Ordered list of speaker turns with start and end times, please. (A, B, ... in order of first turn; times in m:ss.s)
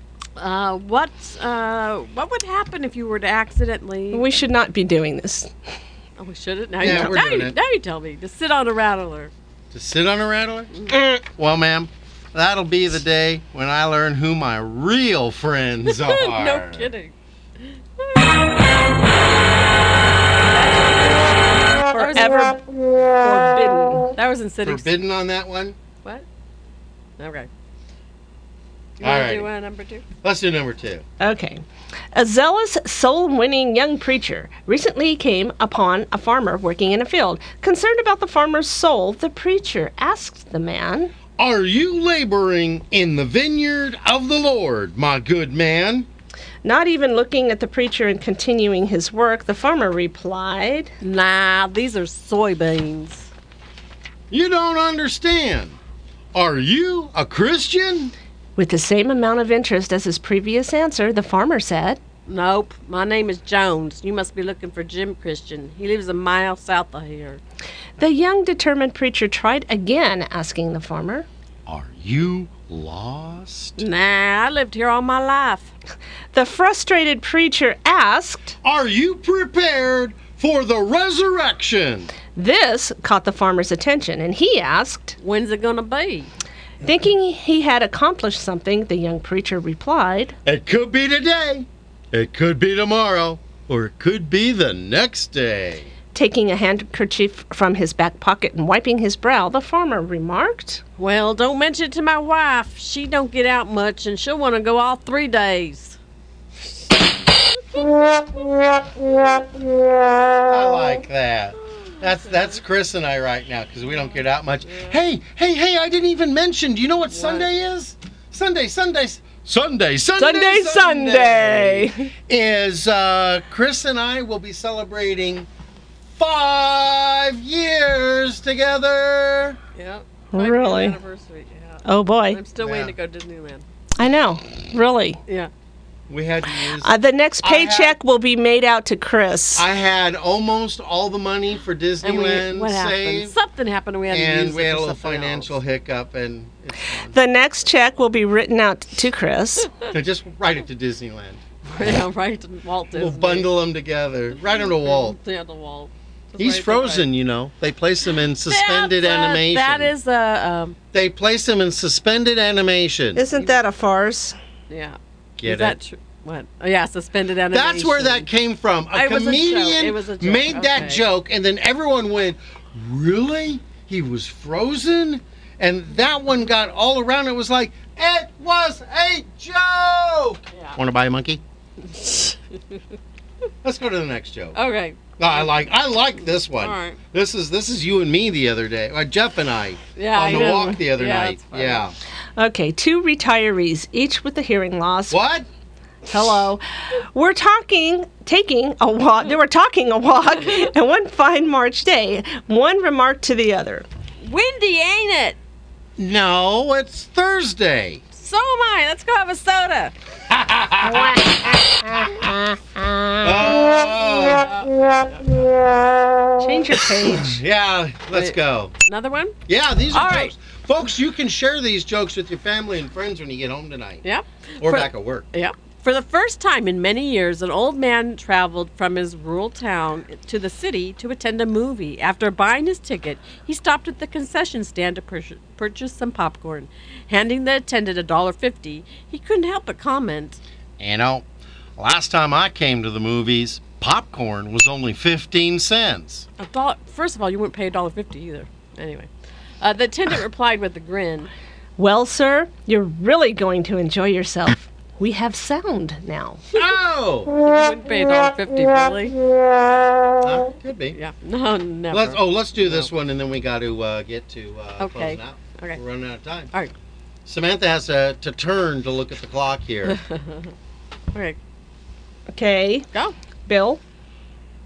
0:00.4-0:04.2 A
0:04.1-0:05.5 B
0:06.2-0:09.3 A
0:06.8-0:07.6 C
0:09.7-0:16.9 C
0:10.9-0:11.2 B
0:15.8-0:18.4 A
0:20.4-0:22.6 A
0:22.0-0:24.1 B
0:24.1-0:24.9 A
0:24.6-0:25.8 C
0:27.2-0:27.5 A
0:29.0-0:29.5 C
0:29.0-0:30.0 A
0:30.2-0:31.0 C
0:31.2-0:31.6 B
0:32.1-0:41.1 B
0:41.4-0:46.1 C
0:46.6-0:50.9 B
0:51.0-0:53.3 A
0:54.3-0:55.8 C
0:56.3-0:58.1 C
0:58.6-1:02.0 B
1:02.2-1:07.4 A
1:08.0-1:11.3 B
1:11.6-1:13.8 C
1:13.8-1:15.7 A
1:16.3-1:18.6 B
1:18.6-1:22.1 C
1:22.3-1:25.1 B
1:25.2-1:26.3 A
1:26.8-1:30.3 B
1:30.4-1:35.9 C
1:36.1-1:40.8 B
1:41.0-1:46.0 A
1:47.5-1:48.2 A
1:50.4-2:05.5 C
1:51.7-1:52.6 A
1:54.0-1:55.0 A
1:57.1-1:57.5 A
2:00.2-2:02.1 B
2:06.2-2:09.6 C
2:09.8-2:13.6 A
2:10.3-2:11.0 B
2:11.8-2:12.4 B
2:12.6-2:12.9 C
2:14.0-2:15.2 B
2:16.1-2:18.0 C
2:16.8-2:19.7 B
2:19.6-2:23.4 C
2:22.0-2:25.5 A
2:24.1-2:27.1 C
2:27.1-2:29.7 B
2:29.9-2:31.4 C
2:31.6-2:33.5 A
2:32.9-2:35.2 C
2:34.4-2:37.1 A
2:36.4-2:39.9 C
2:38.4-2:40.8 A
2:40.9-2:43.2 C
2:43.1-2:44.4 B
2:44.7-2:48.3 A
2:45.4-2:45.8 C
2:47.5-3:01.4 C
2:48.9-2:51.0 A
3:00.5-3:00.8 A
3:01.8-3:02.8 A
3:03.6-3:04.6 C
3:04.5-3:05.5 A
3:05.2-3:11.9 C
3:06.5-3:07.0 A
3:10.0-3:11.8 A
3:10.3-3:10.7 B
3:12.4-3:15.2 B
3:15.1-3:15.5 C
3:16.1-3:23.8 B
3:24.2-3:25.4 A
3:26.0-3:28.0 C
3:28.1-3:29.9 A
3:30.3-3:31.4 C
3:30.8-3:32.3 B
3:33.2-3:34.5 C
3:34.4-3:35.4 A
3:36.4-3:37.4 B
3:37.1-3:38.7 C
3:38.1-3:39.4 A
3:39.5-3:44.0 C
3:39.9-3:40.3 A
3:44.0-4:00.4 A
3:44.6-3:45.3 C
4:00.8-4:06.3 C
4:06.4-4:09.1 A
4:09.6-4:11.3 A
4:11.8-4:16.4 B
4:16.5-4:17.3 C
4:17.3-4:19.2 A
4:20.2-4:21.0 C
4:20.9-4:22.9 A
4:21.9-4:26.5 C
4:24.8-4:25.8 A
4:27.2-4:30.0 C
4:29.8-4:30.5 A
4:31.1-4:31.4 A
4:32.3-4:32.9 B
4:33.5-4:33.8 B